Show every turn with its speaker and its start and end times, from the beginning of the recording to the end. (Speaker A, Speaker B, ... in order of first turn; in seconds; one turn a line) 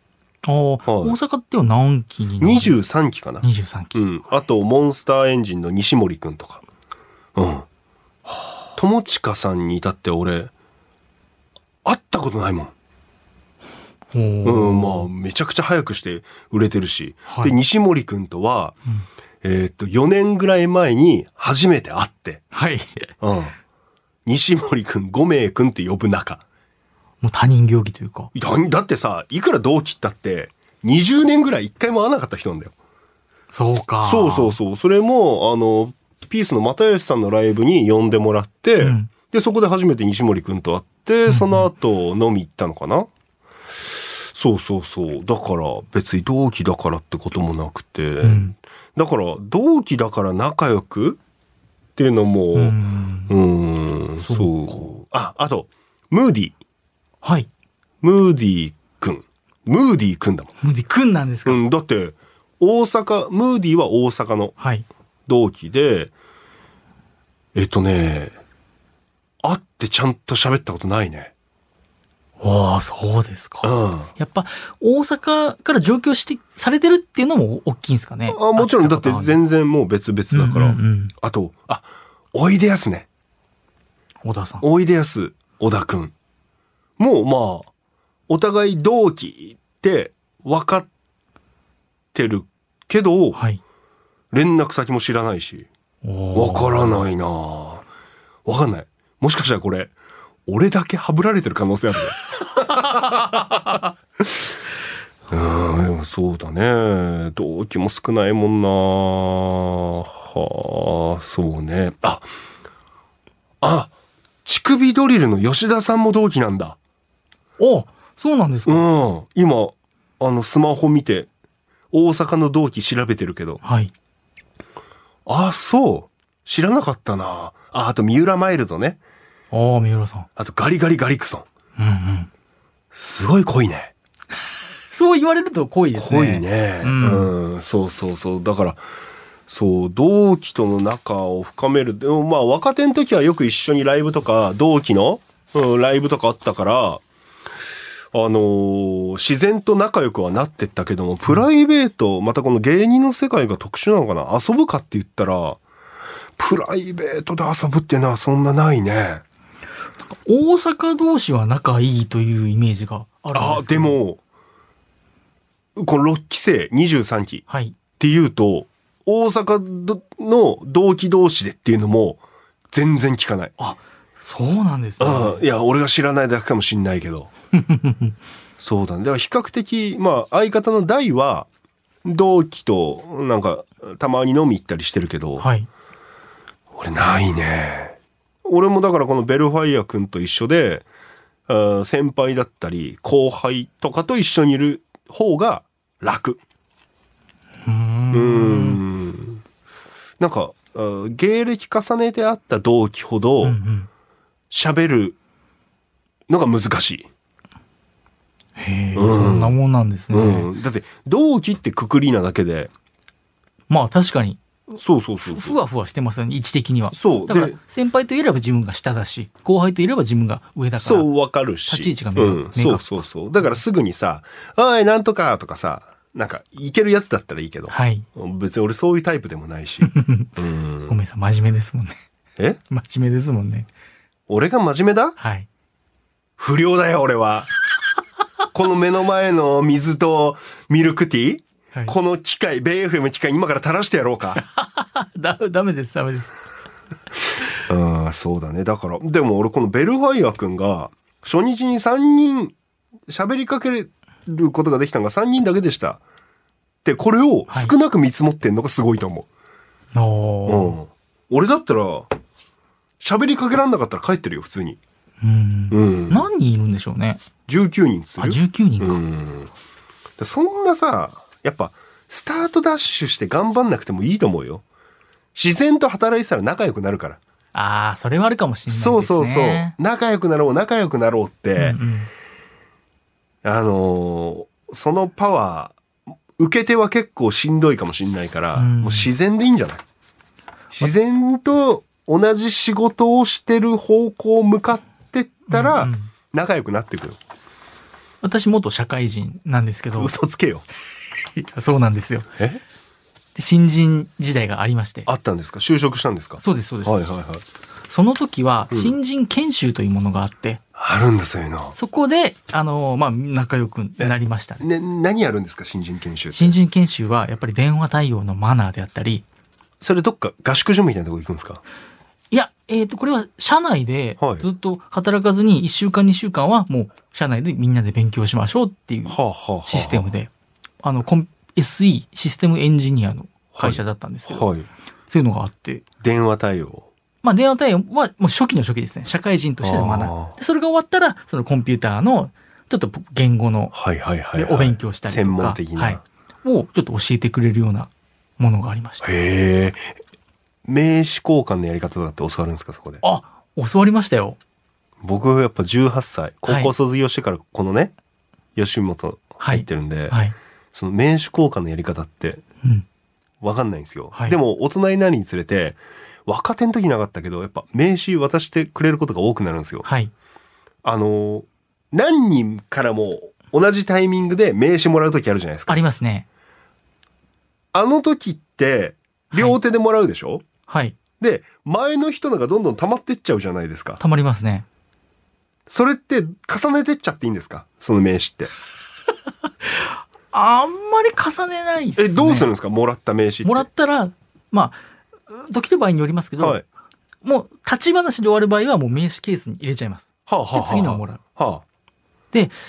Speaker A: 0.4-2.7
Speaker B: 0.8-1.1
Speaker B: 2.4-6.6
Speaker A: 3.4-4.0
Speaker B: 7.3-7.7
Speaker B: 8.8-10.5
Speaker B: 11.8-12.7
Speaker A: 14.1-15.1
Speaker B: 14.4-18.8
Speaker A: 17.3-17.5
Speaker B: 19.4-22.4
Speaker A: 22.5-23.1
Speaker B: 23.2-23.5
Speaker B: 24.2-26.4
Speaker A: 27.2-28.3
Speaker B: 28.3-32.7
Speaker A: 33.5-34.6
Speaker B: 34.0-43.1
Speaker A: 38.8-39.1
Speaker A: 41.3-41.7
Speaker B: 43.9-51.2
Speaker A: 48.2-48.5
Speaker B: 52.0-52.8
Speaker A: 52.5-53.3
Speaker B: 53.3-56.5
Speaker A: 54.2-54.9
Speaker A: 57.2-57.5
Speaker B: 58.0-60.5
Speaker A: 60.6-61.6
Speaker B: 61.5-64.5
Speaker A: 64.6-64.8
Speaker B: 65.3-66.1
Speaker B: 67.5-68.3
Speaker B: 69.4-71.3
Speaker A: 72.4-79.4
Speaker B: 73.6-74.1
Speaker B: 78.3-83.0
Speaker A: 80.3-81.1
Speaker A: 84.2-84.6
Speaker B: 84.6-86.1
Speaker B: 87.0-87.7
Speaker B: 88.3-90.9
Speaker B: 92.1-93.4
Speaker A: 93.3-93.6
Speaker B: 94.3-95.7
Speaker A: 96.0-97.0
Speaker B: 96.3-97.8
Speaker B: 98.5-99.9
Speaker B: 100.5-103.8
Speaker B: 105.3-112.2
Speaker B: 113.6-113.9
Speaker B: 114.4-116.8
Speaker A: 117.6-118.8
Speaker B: 118.7-121.3
Speaker B: 121.9-123.6
Speaker A: 123.6-123.9
Speaker B: 125.2-129.0
Speaker A: 129.5-130.3
Speaker B: 130.3-131.4
Speaker A: 131.8-132.3
Speaker B: 132.9-133.9
Speaker A: 134.9-137.3
Speaker B: 135.9-138.8
Speaker B: 139.5-147.0
Speaker B: 148.1-155.6
Speaker B: 156.4-159.2
Speaker A: 160.1-164.0
Speaker B: 163.3-164.2
Speaker B: 165.8-167.4
Speaker A: 167.5-167.8
Speaker B: 168.0-173.5
Speaker A: 173.6-175.4
Speaker B: 175.0-177.3
Speaker A: 177.6-178.1
Speaker B: 178.6-181.5
Speaker B: 182.0-185.5
Speaker A: 185.4-185.7
Speaker B: 186.7-190.8
Speaker B: 191.5-196.4
Speaker A: 197.6-198.8
Speaker B: 198.1-199.4
Speaker B: 200.2-203.6
Speaker A: 203.4-203.9
Speaker B: 204.5-205.2
Speaker B: 206.3-207.1
Speaker A: 208.6-210.5
Speaker B: 208.9-209.5
Speaker B: 210.1-212.7
Speaker A: 213.7-214.4
Speaker B: 214.8-215.6
Speaker A: 215.2-221.1
Speaker B: 216.9-217.6
Speaker B: 220.8-231.0
Speaker A: 221.7-223.6
Speaker A: 227.7-228.1
Speaker A: 229.8-230.3
Speaker A: 230.9-232.0
Speaker A: 232.7-233.7
Speaker B: 234.3-235.2
Speaker A: 235.2-235.5
Speaker B: 236.4-237.5
Speaker B: 238.5-244.4
Speaker A: 244.4-246.4
Speaker B: 247.6-252.5
Speaker B: 253.1-256.0
Speaker B: 256.8-259.3
Speaker A: 257.5-257.7
Speaker A: 259.9-260.8
Speaker B: 260.4-262.1
Speaker B: 263.0-264.8
Speaker A: 265.2-267.2
Speaker B: 265.7-266.2
Speaker B: 267.4-269.5
Speaker A: 268.2-269.0
Speaker B: 270.2-274.6
Speaker B: 275.3-277.2
Speaker A: 277.5-279.7
Speaker B: 278.7-281.8
Speaker A: 281.6-282.1
Speaker B: 283.4-285.8
Speaker B: 286.4-289.8
Speaker A: 288.5-289.1
Speaker B: 290.7-297.2
Speaker A: 295.5-296.1
Speaker A: 298.2-300.1
Speaker B: 299.9-300.6
Speaker A: 301.4-302.3
Speaker B: 302.4-302.6
Speaker A: 303.3-305.1
Speaker B: 305.1-307.4
Speaker A: 306.4-306.9
Speaker A: 307.9-310.6
Speaker B: 310.8-311.7
Speaker A: 311.7-314.6
Speaker B: 314.0-316.6
Speaker A: 316.3-319.2
Speaker B: 319.8-321.6
Speaker A: 322.3-330.3
Speaker B: 324.2-324.5
Speaker B: 329.1-330.1
Speaker A: 330.8-334.5
Speaker B: 333.5-334.7
Speaker A: 335.1-335.8
Speaker B: 336.0-336.9
Speaker A: 337.2-343.7
Speaker B: 339.6-340.4
Speaker B: 343.7-346.0
Speaker A: 344.3-349.1
Speaker B: 349.0-349.9
Speaker B: 350.6-353.0
Speaker A: 353.0-354.4
Speaker B: 355.0-357.9
Speaker A: 356.4-356.7
Speaker B: 358.6-360.2
Speaker A: 359.4-360.3
Speaker B: 360.7-362.4
Speaker B: 363.4-369.9
Speaker A: 369.8-370.1
Speaker B: 370.8-375.8
Speaker A: 375.7-376.2
Speaker B: 377.7-380.4
Speaker A: 379.3-379.6
Speaker A: 380.7-381.0
Speaker B: 381.2-384.0
Speaker A: 384.0-384.6
Speaker B: 385.7-388.5
Speaker A: 389.6-392.5
Speaker B: 391.9-393.6
Speaker A: 393.4-396.6
Speaker A: 397.2-401.2
Speaker B: 400.3-401.6